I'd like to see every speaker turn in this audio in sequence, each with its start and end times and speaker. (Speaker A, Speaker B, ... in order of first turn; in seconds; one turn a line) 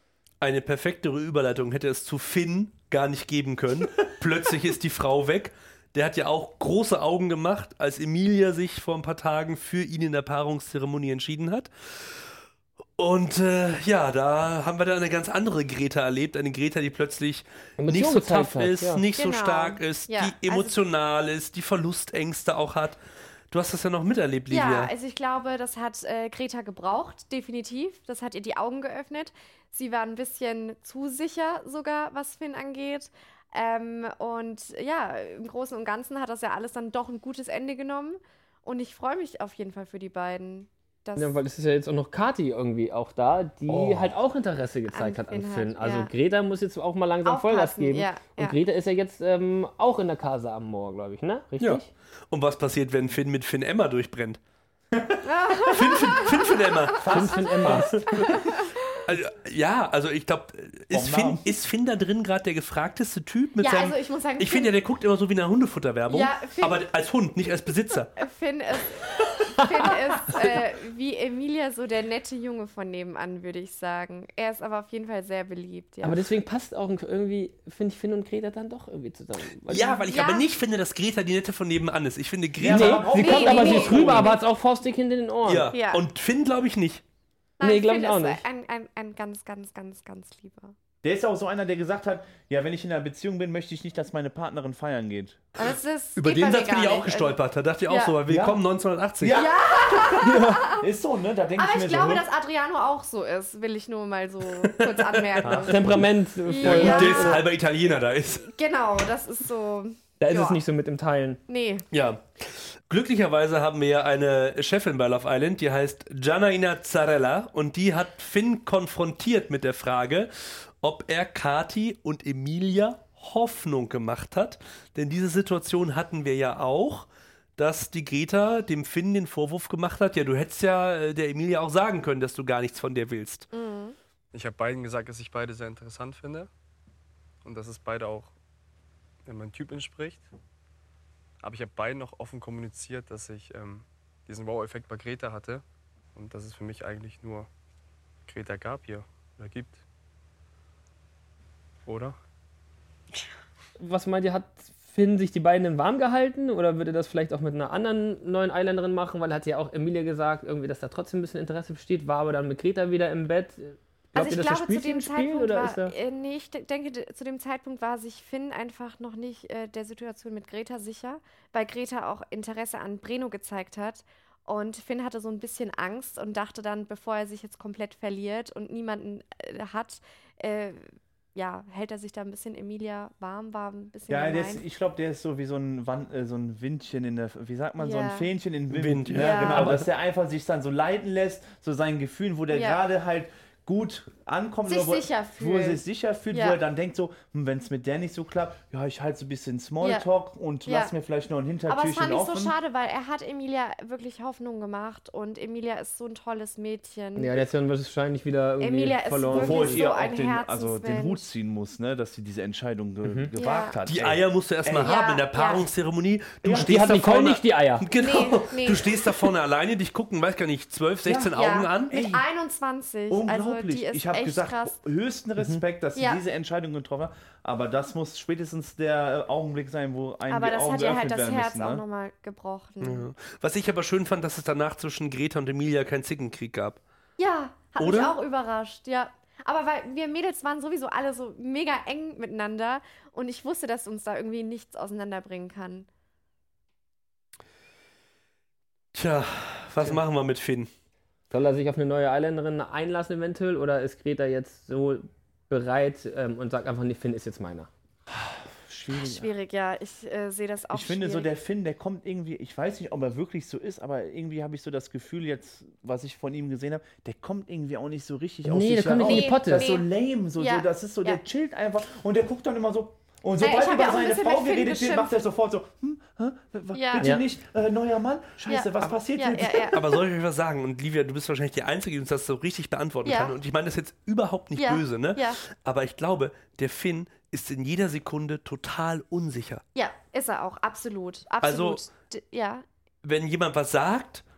Speaker A: 0.4-12.3
Speaker A: 13.0-23.0
Speaker B: 17.8-19.0
Speaker C: 19.2-20.8
Speaker A: 23.5-24.9
Speaker C: 24.5-41.4
Speaker B: 41.1-51.9
Speaker C: 44.9-46.1
Speaker C: 47.2-48.6
Speaker A: 51.6-54.4
Speaker D: 54.9-55.2
Speaker C: 55.2-57.1
Speaker A: 55.7-58.4
Speaker D: 57.0-58.1
Speaker B: 57.1-58.0
Speaker C: 58.1-58.7
Speaker A: 59.1-68.1
Speaker D: 60.9-61.4
Speaker C: 63.6-64.7
Speaker C: 66.1-66.8
Speaker C: 68.2-76.2
Speaker B: 76.0-80.0
Speaker A: 79.7-83.1
Speaker C: 80.1-80.4
Speaker D: 82.6-84.3
Speaker B: 82.7-85.7
Speaker C: 83.1-84.4
Speaker A: 85.5-87.0
Speaker C: 85.7-86.0
Speaker C: 87.6-90.7
Speaker B: 87.6-88.4
Speaker D: 91.0-95.5
Speaker C: 95.6-97.3
Speaker A: 96.2-99.5
Speaker C: 97.9-98.2
Speaker D: 98.3-98.6
Speaker D: 99.2-102.2
Speaker C: 99.3-100.8
Speaker C: 101.6-105.8
Speaker A: 104.6-105.7
Speaker D: 105.4-105.9
Speaker B: 105.7-107.4
Speaker C: 106.4-107.4
Speaker A: 106.6-108.5
Speaker C: 108.4-110.6
Speaker B: 110.2-111.4
Speaker C: 111.5-111.8
Speaker A: 111.9-133.5
Speaker C: 133.5-133.9
Speaker E: 134.3-136.5
Speaker E: 137.4-138.3
Speaker E: 139.2-140.2
Speaker E: 141.4-147.5
Speaker E: 148.2-149.8
Speaker E: 151.9-152.2
Speaker B: 153.8-165.9
Speaker C: 164.1-184.6
Speaker D: 184.1-202.6
Speaker C: 187.8-188.3
Speaker A: 188.7-189.8
Speaker C: 189.1-189.8
Speaker C: 192.5-192.8
Speaker C: 194.7-196.6
Speaker C: 200.7-200.9
Speaker C: 201.7-207.4
Speaker B: 207.2-209.8
Speaker C: 208.6-211.2
Speaker D: 209.3-215.0
Speaker B: 213.0-213.3
Speaker C: 213.3-213.8
Speaker A: 213.8-221.9
Speaker C: 214.8-215.7
Speaker D: 216.4-216.8
Speaker B: 216.5-217.8
Speaker C: 217.9-219.1
Speaker D: 221.0-222.2
Speaker C: 221.3-224.8
Speaker D: 223.1-231.8
Speaker C: 225.9-226.2
Speaker C: 230.3-233.1
Speaker A: 232.8-236.8
Speaker C: 237.2-245.9
Speaker A: 237.8-238.1
Speaker A: 248.9-250.7
Speaker B: 251.3-257.7
Speaker D: 258.1-259.3
Speaker C: 259.0-261.3
Speaker D: 260.7-279.8
Speaker B: 268.4-269.7
Speaker C: 269.0-269.9
Speaker C: 270.4-271.2
Speaker C: 273.4-275.1
Speaker C: 276.7-277.1
Speaker C: 278.5-279.8
Speaker A: 279.7-289.6
Speaker C: 283.1-283.3
Speaker C: 284.6-285.4
Speaker C: 289.7-292.6
Speaker A: 291.4-291.8
Speaker A: 293.0-294.2